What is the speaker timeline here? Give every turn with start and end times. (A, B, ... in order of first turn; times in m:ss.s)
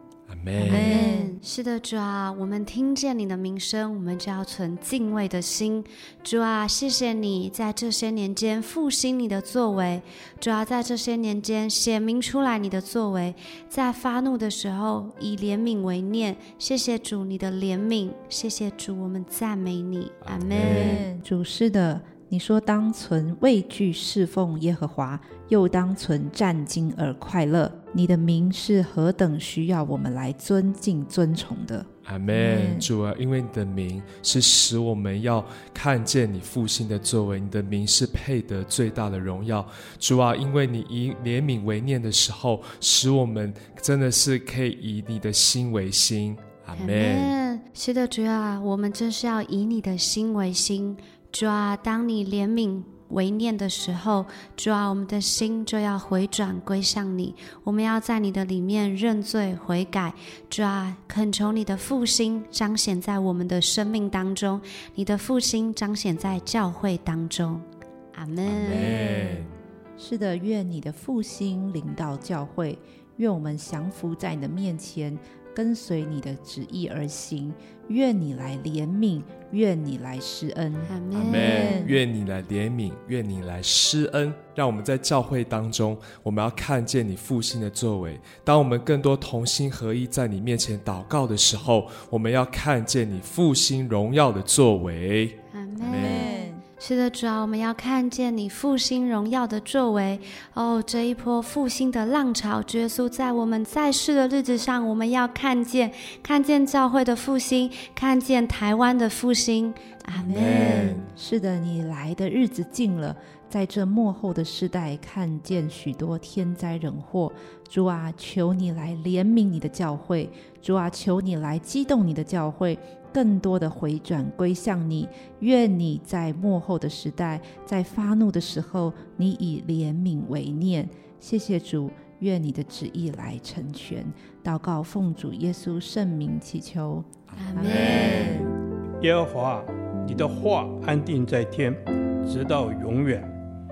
0:00.3-0:01.0 A
0:00.6-0:21.0 B
0:00.6-0:01.3 C
0:20.3-0:21.0 A
0:20.5-0:32.9 C
0:32.0-0:47.3 A
0:46.7-1:09.0 B
1:08.4-1:09.5 A
1:08.7-1:22.0 C
1:20.9-1:21.9 B
1:21.1-1:36.2 A
1:35.5-1:51.0 B
1:36.0-1:36.6 C
1:50.2-2:18.5 C
1:50.3-1:51.0 A
2:17.4-2:18.4 B
2:19.0-2:23.3 D